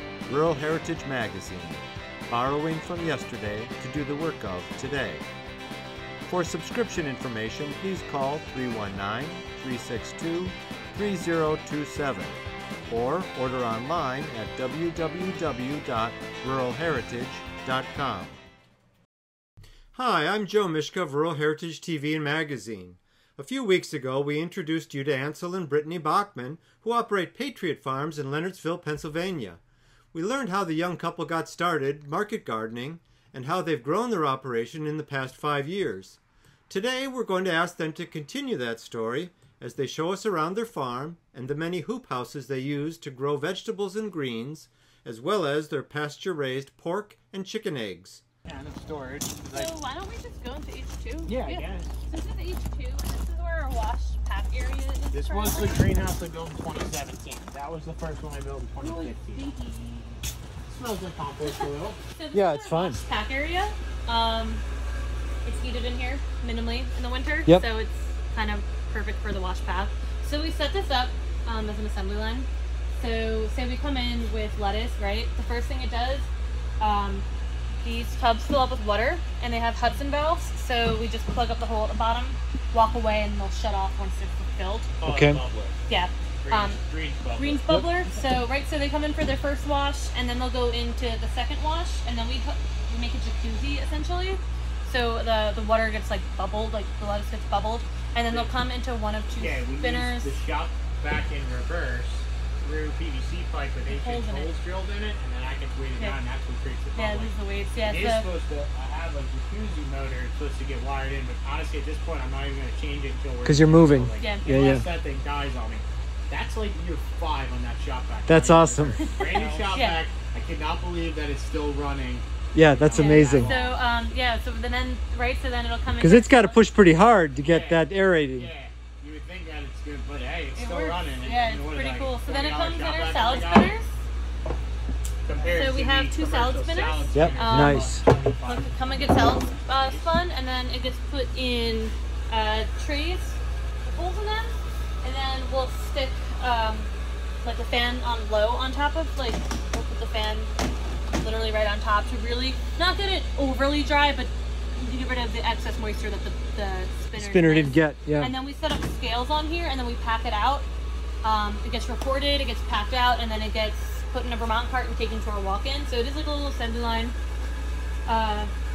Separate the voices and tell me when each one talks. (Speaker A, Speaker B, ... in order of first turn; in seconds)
Speaker A: 0.3-5.2, 6.3-18.4, 19.9-29.6, 30.1-48.2, 62.3-63.0, 85.1-85.4, 113.4-114.9, 118.3-119.0, 122.5-123.5, 126.0-128.5, 137.1-138.0, 157.2-158.3
Speaker B: 48.5-49.7, 51.3-52.0, 55.1-59.4, 60.7-62.0, 85.0-85.8, 86.4-87.9, 99.4-123.8, 127.4-133.8, 135.2-140.1
Speaker C: 49.5-55.9, 58.8-60.2, 61.4-64.6, 65.5-76.3, 76.8-77.3, 77.8-84.9, 85.9-86.8, 87.4-100.4, 103.9-104.5, 107.0-108.3, 114.2-114.8, 119.0-120.0, 122.9-126.6, 130.6-133.9, 135.5-137.9, 138.4-146.9, 147.4-150.5, 151.2-160.7, 161.2-167.2, 168.1-168.5